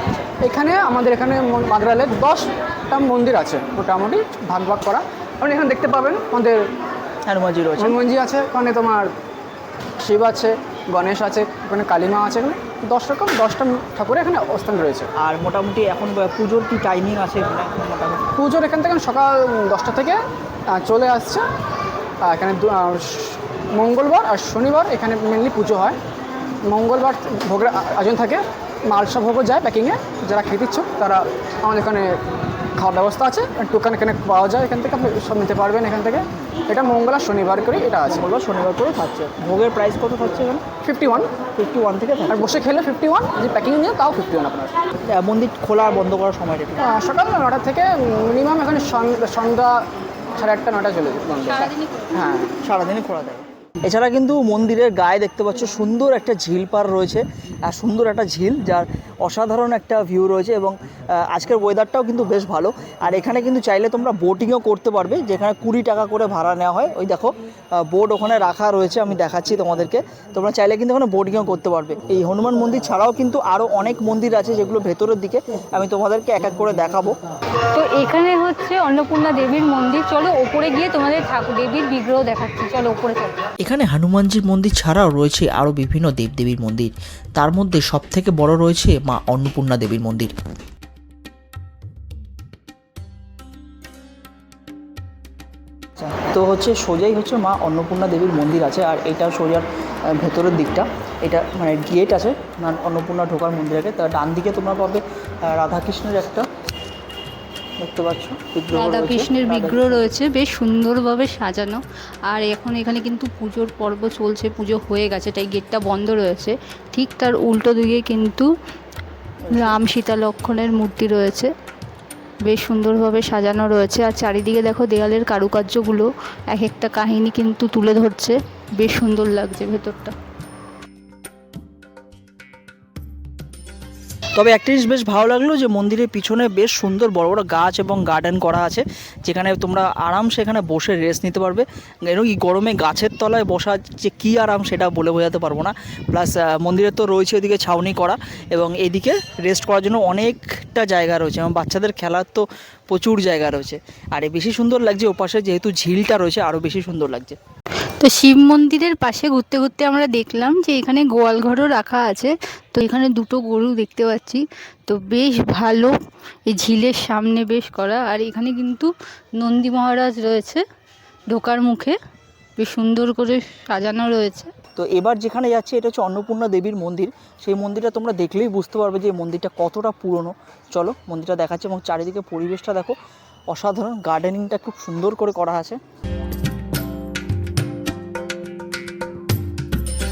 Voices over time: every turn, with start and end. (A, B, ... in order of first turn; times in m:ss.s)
0:00.4-0:06.6 A
0:07.3-0:07.9 B
0:07.8-0:09.1 A
0:10.0-0:15.1 A
0:15.2-0:18.2 B
0:18.4-0:20.2 A
0:20.7-0:21.4 A
0:22.2-0:26.0 A
0:26.7-0:32.1 A
0:32.8-0:38.2 A
0:38.1-0:40.6 B
0:40.8-0:41.3 A
0:41.6-0:42.4 B
0:42.3-0:44.7 A
0:45.1-0:46.8 B
0:46.8-0:49.7 A
0:50.4-0:52.5 A
0:51.4-0:52.2 C
0:52.6-1:17.1 B
1:17.7-1:23.3 C
1:23.6-1:30.3 D
1:36.0-1:39.7 B
1:40.2-1:46.5 B
1:47.8-1:50.1 B
1:48.7-1:58.5 C
1:59.5-1:59.8 B
1:59.5-2:01.5 C
2:02.5-2:10.1 C
2:14.3-2:37.4 B
2:38.0-2:45.9 C
2:46.5-2:50.6 C
2:51.3-2:51.9 C
2:52.6-2:54.5 C
2:54.8-3:03.0 B
3:03.5-3:05.8 B